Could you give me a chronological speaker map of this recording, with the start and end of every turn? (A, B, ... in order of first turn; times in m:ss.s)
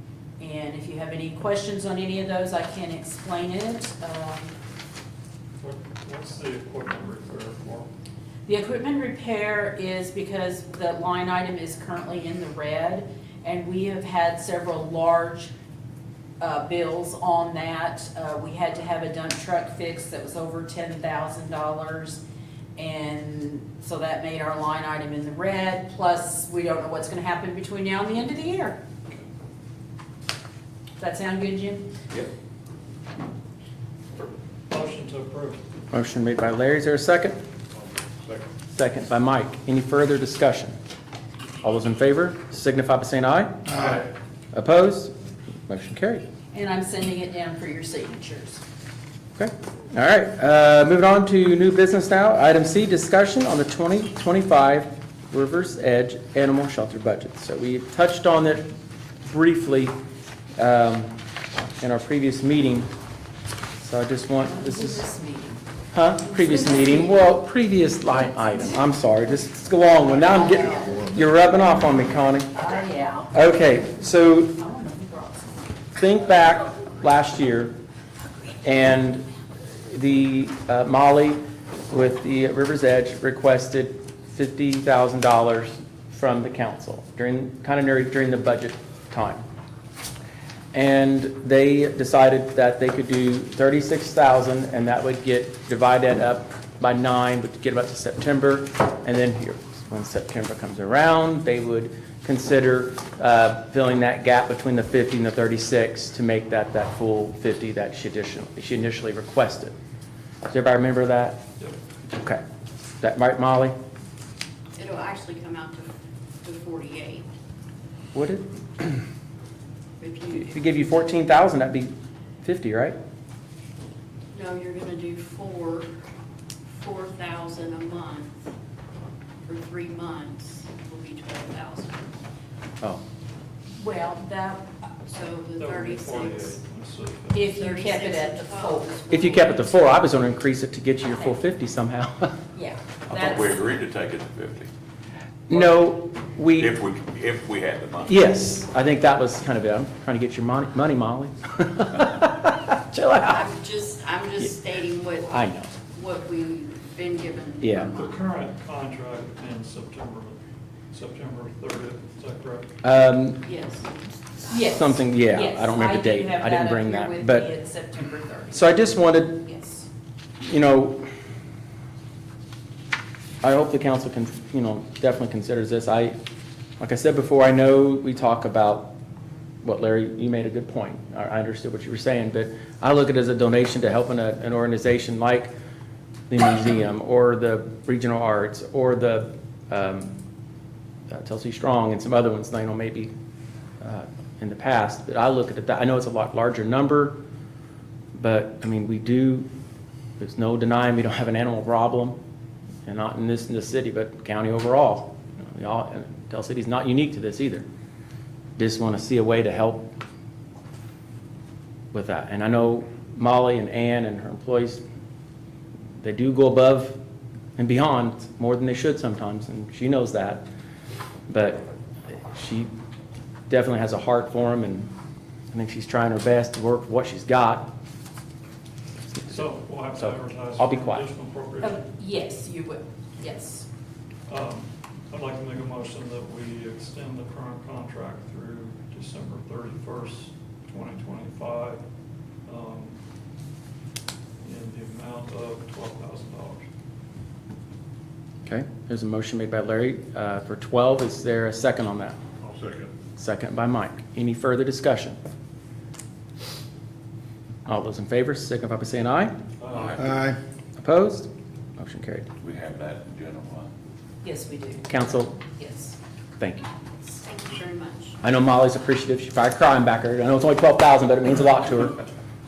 0:00.4-0:04.5 A
0:05.6-0:07.9 B
0:08.5-0:15.5 A
0:16.4-0:22.2 A
0:22.8-0:28.8 A
0:31.0-0:31.9 A
0:34.7-0:35.6 B
0:35.9-0:37.4 C
0:38.8-0:40.8 C
0:41.6-0:45.1 C
0:45.7-0:46.2 C
0:46.5-0:48.6 A
0:49.4-0:58.7 C
0:59.2-0:59.9 C
1:00.6-1:01.2 C
1:01.8-1:02.9 C
1:03.8-1:05.0 C
1:04.4-1:05.6 A
1:05.9-1:12.6 C
1:06.2-1:07.3 A
1:10.3-1:11.1 A
1:12.6-1:13.4 A
1:13.3-1:14.6 C
1:14.5-1:15.7 A
1:16.0-1:17.8 C
1:18.6-1:19.3 C
1:19.8-1:29.4 C
1:30.7-1:49.7 C
1:50.5-1:51.4 C
1:52.1-1:52.4 C
1:53.0-1:53.8 C
1:54.8-1:57.3 D
1:58.1-1:59.0 C
2:00.0-2:00.8 D
2:00.3-2:03.0 C
2:04.3-2:05.9 D
2:06.7-2:08.4 D
2:09.4-2:12.2 D
2:13.8-2:14.7 A
2:15.1-2:16.6 D
2:15.6-2:17.6 B
2:17.3-2:18.9 A
2:17.5-2:19.9 D
2:19.1-2:22.4 C
2:22.5-2:23.7 A
2:23.1-2:24.7 E
2:25.5-2:26.8 C
2:26.5-2:28.1 E
2:28.0-2:33.5 C
2:33.2-2:35.4 D
2:35.2-2:35.7 C
2:35.9-2:38.2 D
2:37.6-2:37.9 C
2:37.9-2:40.4 B
2:40.9-2:42.7 B
2:42.8-2:43.4 C
2:43.4-2:44.6 D
2:44.5-2:48.9 A
2:44.6-2:47.5 C
2:48.5-2:49.4 C
2:49.4-2:49.9 A
2:50.4-2:51.1 C
2:53.4-2:56.2 C
2:56.8-2:58.9 C
2:59.6-3:05.5 C
3:06.3-3:10.2 C
3:11.1-3:13.1 C
3:13.8-3:17.2 C
3:18.2-3:19.5 C
3:20.2-3:22.2 C
3:22.8-3:27.7 C
3:28.6-3:29.9 C
3:31.9-3:34.8 C
3:36.0-3:37.0 C
3:37.6-3:40.5 C
3:41.3-3:42.7 C
3:43.5-3:44.9 C
3:45.5-3:47.7 C
3:49.1-3:51.1 C
3:49.3-3:51.8 B
3:51.6-3:53.7 A
3:54.3-4:01.8 B
4:02.5-4:03.0 B
4:04.4-4:06.7 B
4:08.4-4:12.2 C
4:12.6-4:12.9 E
4:13.2-4:15.2 C
4:17.7-4:19.4 C
4:19.6-4:20.0 B
4:19.8-4:20.2 E
4:20.8-4:22.3 C
4:22.4-4:23.7 E
4:24.2-4:24.8 A
4:24.9-4:25.4 C
4:25.6-4:26.0 A
4:26.4-4:26.7 C
4:27.2-4:28.2 D
4:28.2-4:32.0 C